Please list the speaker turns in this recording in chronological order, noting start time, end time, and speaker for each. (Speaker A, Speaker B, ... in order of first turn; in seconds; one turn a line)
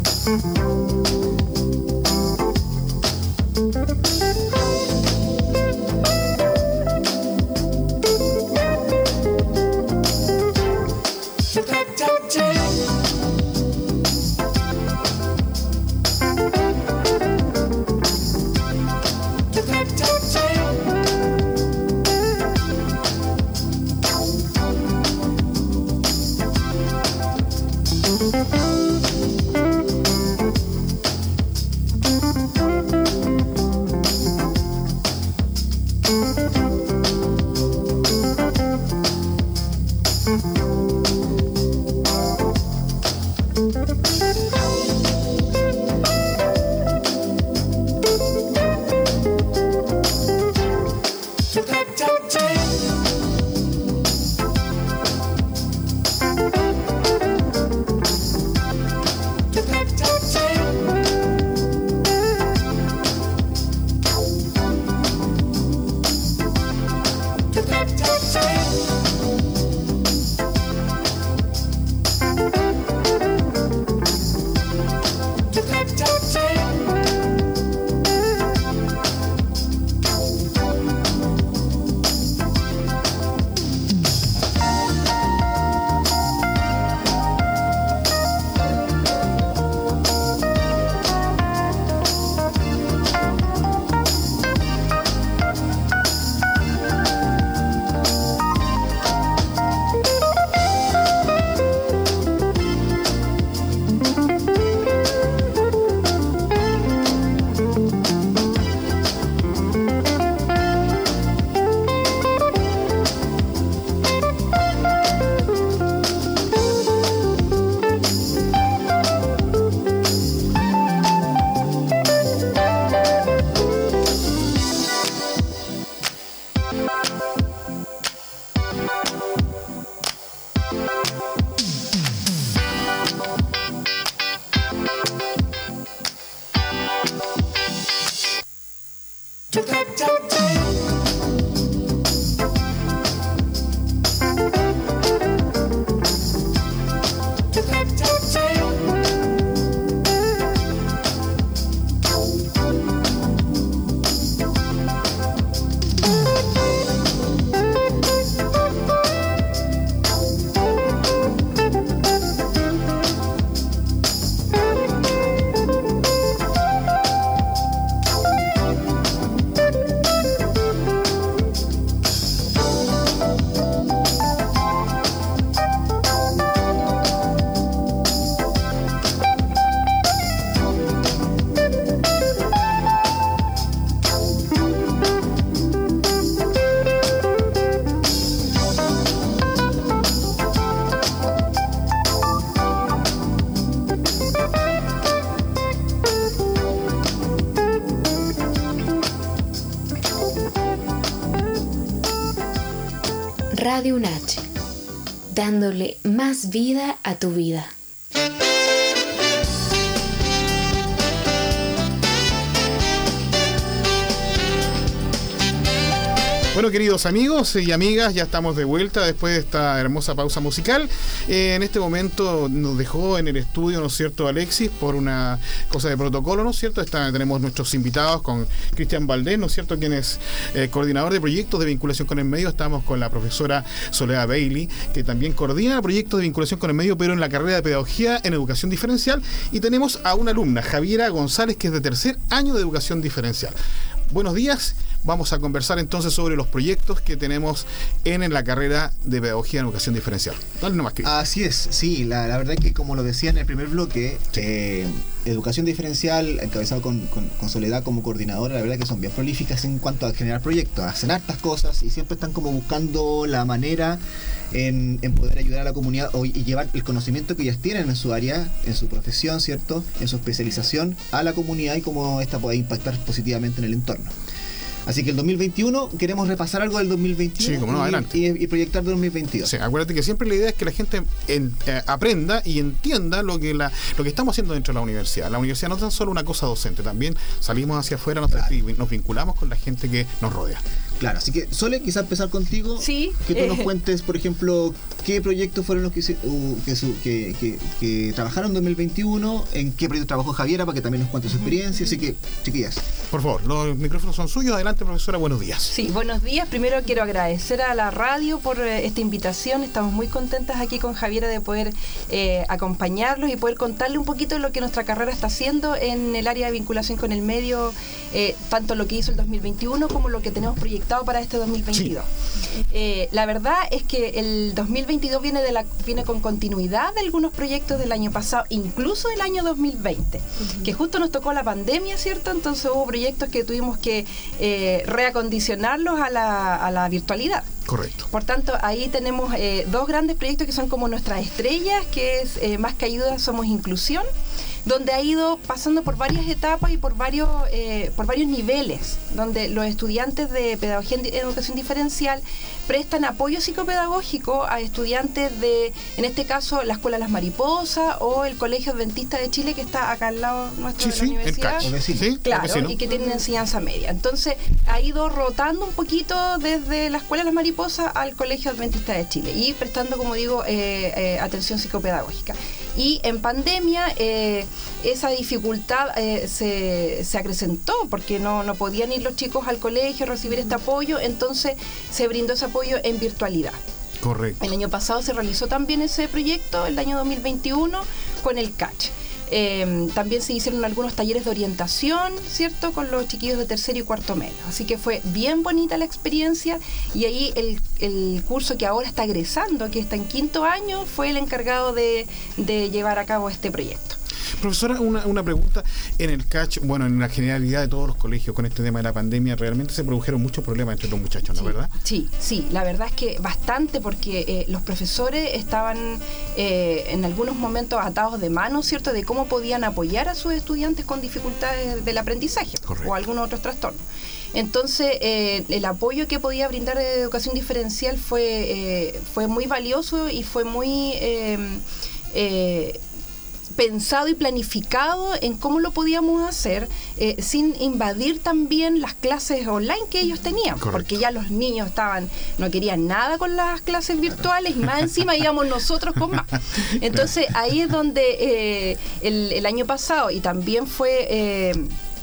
Speaker A: 203.5-204.4
Speaker A: 205.3-207.7
Speaker B: 216.5-243.6
Speaker B: 244.1-251.1
Speaker C: 251.0-264.0
Speaker C: 264.5-274.1
Speaker C: 274.9-279.5
Speaker B: 277.4-278.1
Speaker B: 279.4-290.6
Speaker C: 291.0-302.8
Speaker D: 292.8-293.7
Speaker B: 303.1-305.7
Speaker D: 305.7-322.1
Speaker D: 322.7-337.6
Speaker B: 337.6-338.1
Speaker D: 338.1-344.1
Speaker D: 344.6-361.7
Speaker B: 360.8-362.8
Speaker C: 361.6-362.1
Speaker D: 362.2-383.6
Speaker B: 384.0-384.5
Speaker D: 384.4-404.0
Speaker B: 404.4-411.7
Speaker D: 411.4-423.8
Speaker B: 422.6-422.9
Speaker D: 424.3-432.8
Speaker D: 433.6-451.7
Speaker B: 440.6-441.0